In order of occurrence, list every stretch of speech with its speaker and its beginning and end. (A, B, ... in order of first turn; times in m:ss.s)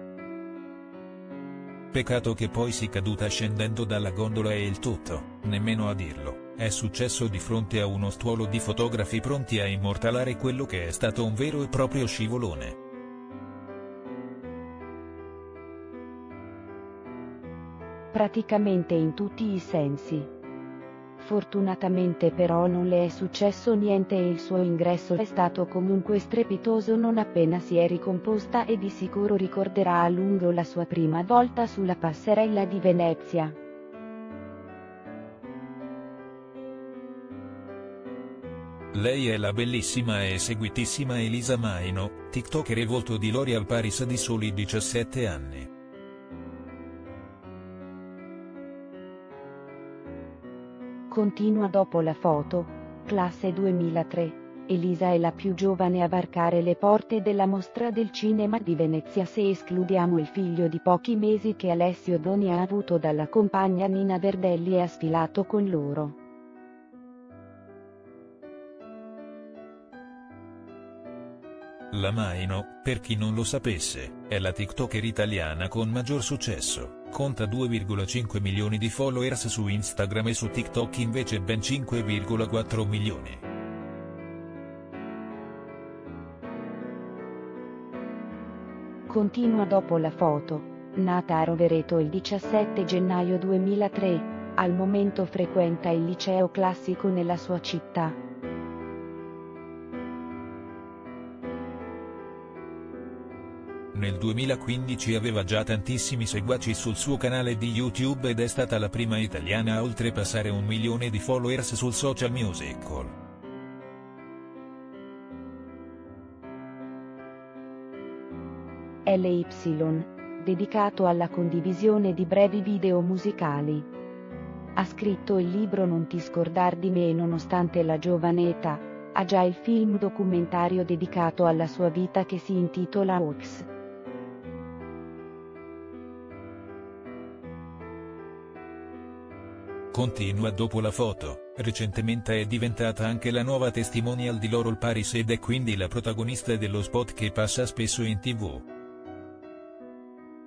0:01.9-0:12.8 A
0:18.1-0:20.3 B
0:21.2-0:33.6 B
0:38.9-0:45.7 A
0:51.1-1:06.2 B
1:11.9-1:23.4 A
1:29.1-1:38.2 B
1:43.9-1:53.1 A
1:59.0-2:03.9 B
2:04.8-2:13.7 B
2:19.9-2:28.6 A